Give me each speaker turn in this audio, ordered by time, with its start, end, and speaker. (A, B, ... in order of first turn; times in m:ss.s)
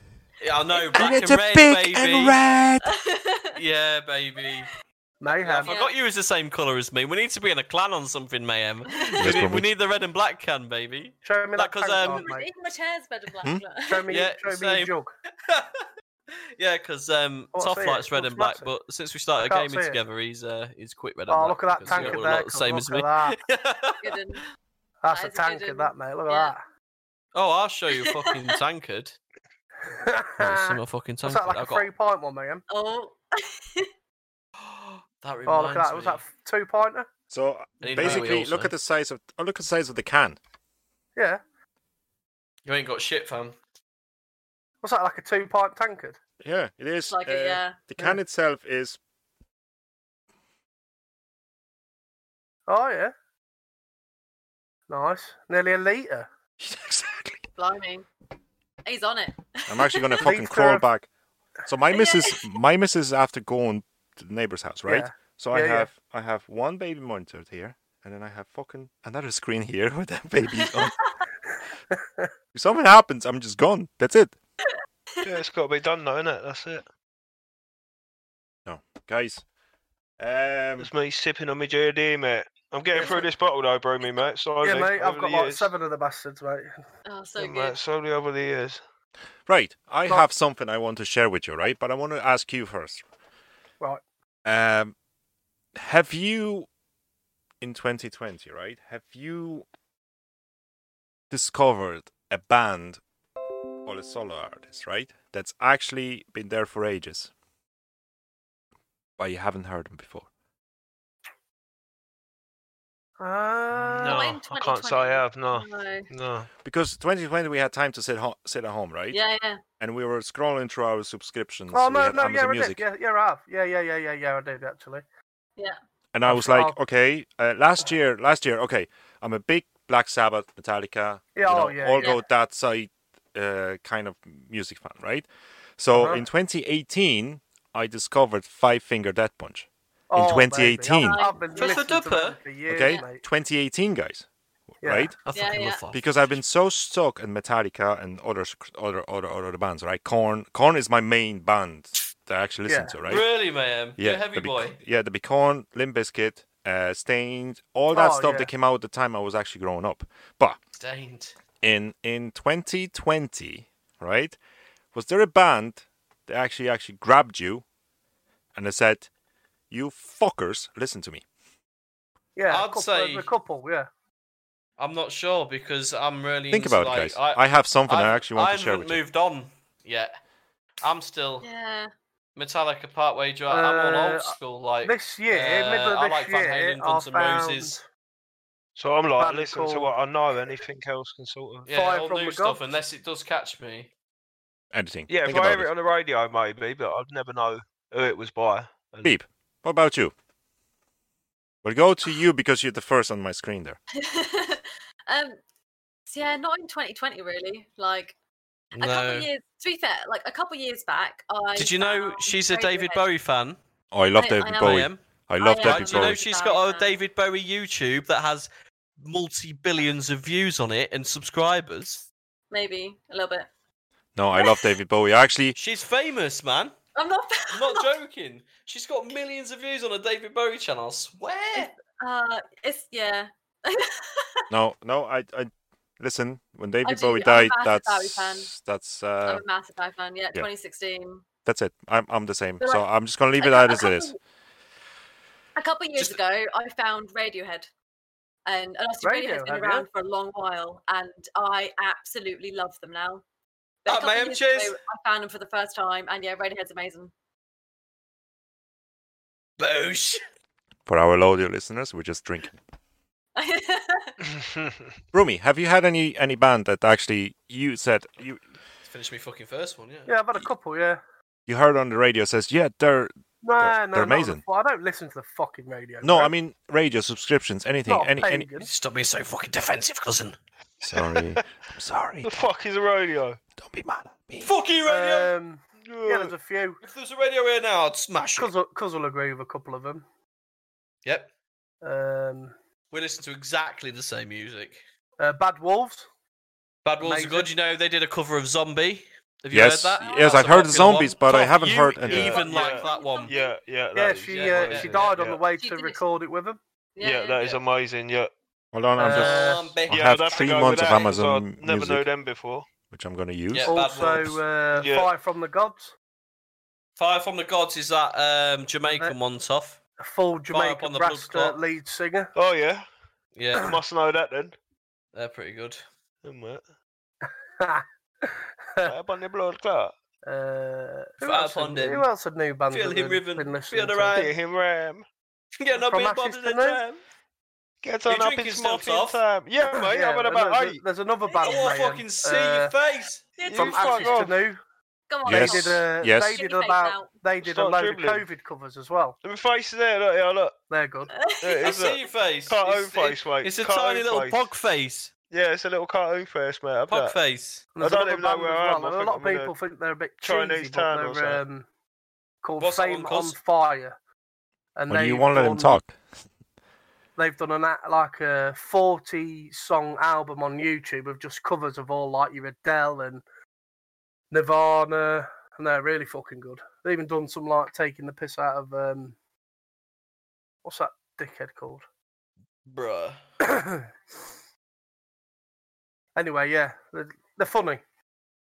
0:00.4-0:02.4 A
0:00.8-0:01.2 B
0:00.9-0:02.9 C
0:02.8-0:03.6 B
0:03.6-0:04.7 A
0:05.2-0:05.7 D
0:05.4-0:12.3 A
0:05.6-0:05.9 B
0:08.9-0:09.3 B
0:09.2-0:09.7 C
0:11.2-0:12.5 D
0:12.0-0:14.1 B
0:13.8-0:15.1 D
0:14.1-0:14.9 A
0:15.4-0:15.9 A
0:16.6-0:24.2 A
0:17.5-0:18.7 D
0:19.4-0:20.0 D
0:21.3-0:23.4 D
0:24.0-0:24.4 B
0:25.0-0:26.6 D
0:25.1-0:26.5 B
0:27.3-0:29.2 A
0:28.0-0:28.6 B
0:29.8-0:32.6 D
0:30.4-0:31.9 A
0:32.7-0:33.9 B
0:34.6-0:36.2 A
0:35.5-0:37.1 D
0:37.3-0:40.4 C
0:37.8-0:38.7 A
0:41.2-0:41.4 D
0:42.6-0:43.6 A
0:44.8-0:46.2 D
0:46.4-0:49.0 C
0:47.1-0:47.8 B
0:52.7-0:53.1 D
0:54.9-0:56.3 D
0:56.6-0:57.4 C
0:57.6-0:58.0 B
0:58.8-1:00.2 B
0:59.7-1:01.1 C
1:00.2-1:00.8 D
1:01.7-1:11.0 C
1:01.9-1:02.4 B
1:04.9-1:05.9 D
1:11.9-1:12.3 D
1:12.5-1:14.4 C
1:15.2-1:16.8 E
1:18.6-1:19.4 C
1:20.2-1:20.9 C
1:20.8-1:25.7 E
1:22.9-1:23.2 D
1:24.6-1:26.7 D
1:27.1-1:27.8 B
1:27.4-1:28.8 E
1:29.4-1:33.0 C
1:34.4-1:34.9 C
1:35.7-1:36.7 C
1:37.6-1:39.6 C
1:41.3-1:43.0 C
1:43.8-1:47.3 C
1:49.2-1:50.3 C
1:53.2-1:54.2 D
1:53.8-1:56.5 E
1:54.0-1:56.1 B
1:56.6-1:59.2 C
1:59.1-1:59.6 B
1:59.8-2:02.8 C
2:01.7-2:05.0 D
2:06.1-2:21.2 C
2:06.2-2:06.8 D
2:11.4-2:12.2 D
2:15.9-2:16.2 D
2:20.1-2:23.2 D
2:20.9-2:21.8 B
2:21.6-2:22.4 A
2:22.7-2:24.3 C
2:24.8-2:25.2 C
2:24.8-2:25.1 D
2:25.2-2:26.0 A
2:25.3-2:25.8 B
2:25.9-2:33.3 C
2:32.7-2:32.9 D
2:33.0-2:34.8 A
2:34.0-2:40.6 C
2:37.9-2:38.5 D
2:40.7-2:41.3 A
2:41.6-2:44.4 C
2:44.9-2:47.6 C
2:48.5-2:49.1 C
2:49.7-2:51.2 C
2:52.4-2:53.9 D
2:52.5-2:53.3 A
2:54.8-3:00.1 A
2:56.5-2:59.0 C
3:00.8-3:01.4 A
3:01.4-3:01.9 B
3:02.4-3:07.8 A
3:03.5-3:04.3 D
3:04.8-3:07.8 D
3:08.8-3:11.7 E
3:09.2-3:09.9 D
3:11.7-3:13.9 A
3:11.7-3:12.6 D
3:14.7-3:15.7 C
3:15.1-3:19.2 E
3:19.0-3:20.1 C
3:21.6-3:23.8 C
3:23.9-3:25.4 B
3:26.1-3:28.2 B
3:28.7-3:29.3 A
3:28.7-3:33.0 B
3:31.6-3:33.6 A
3:33.9-3:36.2 C
3:34.2-3:34.8 B
3:34.6-3:35.0 A
3:35.4-3:36.9 B
3:35.6-3:38.5 A
3:39.0-3:42.0 A
3:42.5-3:43.5 B
3:44.2-3:45.6 C
3:44.3-3:44.6 B
3:45.6-3:46.7 A
3:47.0-3:47.9 B
3:47.5-3:51.7 A
3:51.5-3:54.4 B
3:54.5-3:59.4 C
3:56.8-3:58.5 B
3:59.2-4:01.2 B
4:01.4-4:04.1 C
4:03.4-4:04.2 B
4:05.6-4:07.7 B
4:08.4-4:13.2 B
4:09.0-4:09.9 D
4:13.8-4:14.8 A
4:13.8-4:17.1 B
4:19.6-4:20.2 A
4:20.8-4:22.6 C
4:23.4-4:24.1 B
4:25.1-4:28.4 C
4:28.8-4:30.4 A
4:30.1-4:31.0 D
4:31.5-4:34.4 C
4:33.4-4:36.3 D
4:36.0-4:38.5 C
4:37.9-4:38.7 D
4:38.6-4:40.4 A
4:40.8-4:42.4 C
4:42.2-4:43.4 E
4:43.6-4:44.5 C
4:44.4-4:45.3 A
4:44.8-4:46.8 D
4:45.8-4:46.3 E
4:46.8-4:48.5 A
4:48.4-4:50.0 D
4:51.0-4:51.3 A
4:51.8-4:52.5 D
4:52.9-4:54.8 A
4:55.2-4:56.1 D
4:56.8-5:03.3 A
4:57.0-4:57.5 D
4:59.5-5:02.4 C
5:02.0-5:05.4 E
5:02.2-5:03.6 B
5:03.9-5:06.6 D
5:04.3-5:05.1 A
5:05.5-5:06.0 B
5:07.0-5:07.6 B
5:07.0-5:08.3 E
5:08.7-5:12.1 C
5:09.0-5:09.8 D
5:09.0-5:11.2 A
5:09.9-5:12.7 E
5:12.9-5:13.8 C
5:13.5-5:14.4 A
5:13.6-5:15.9 D
5:14.7-5:15.1 E
5:17.0-5:19.8 A
5:20.0-5:22.3 D
5:20.5-5:21.6 A
5:22.3-5:22.8 E
5:23.4-5:23.8 A
5:23.6-5:24.6 E
5:25.1-5:25.8 A
5:26.2-5:26.6 E
5:27.6-5:28.9 D
5:28.8-5:29.9 E
5:30.2-5:34.2 D
5:31.2-5:32.1 A
5:32.7-5:34.3 A
5:34.1-5:35.0 E
5:35.6-5:37.0 A
5:35.7-5:36.8 D
5:37.8-5:40.8 E
5:38.0-5:39.2 A
5:39.6-5:42.7 D
5:41.4-5:41.7 B
5:41.4-5:43.3 A
5:43.4-5:44.3 B
5:43.4-5:44.4 E
5:43.5-5:44.6 D
5:45.1-5:47.2 B
5:45.2-5:46.3 C
5:45.2-5:49.2 D
5:47.4-5:48.3 E
5:49.2-5:50.6 E
5:50.7-5:51.1 D
5:51.1-5:51.8 B
5:51.4-5:54.4 E
5:51.6-5:55.1 A
5:55.3-5:57.2 E
5:56.9-5:57.7 A
5:57.8-6:01.6 D
5:57.8-5:59.5 E
6:00.2-6:01.4 E
6:02.4-6:03.9 D
6:02.6-6:03.4 A
6:04.8-6:05.8 D
6:04.9-6:06.0 C
6:07.2-6:13.2 D
6:14.3-6:19.2 D
6:20.6-6:21.8 D
6:22.7-6:23.2 A
6:23.5-6:23.8 D
6:26.2-6:27.8 D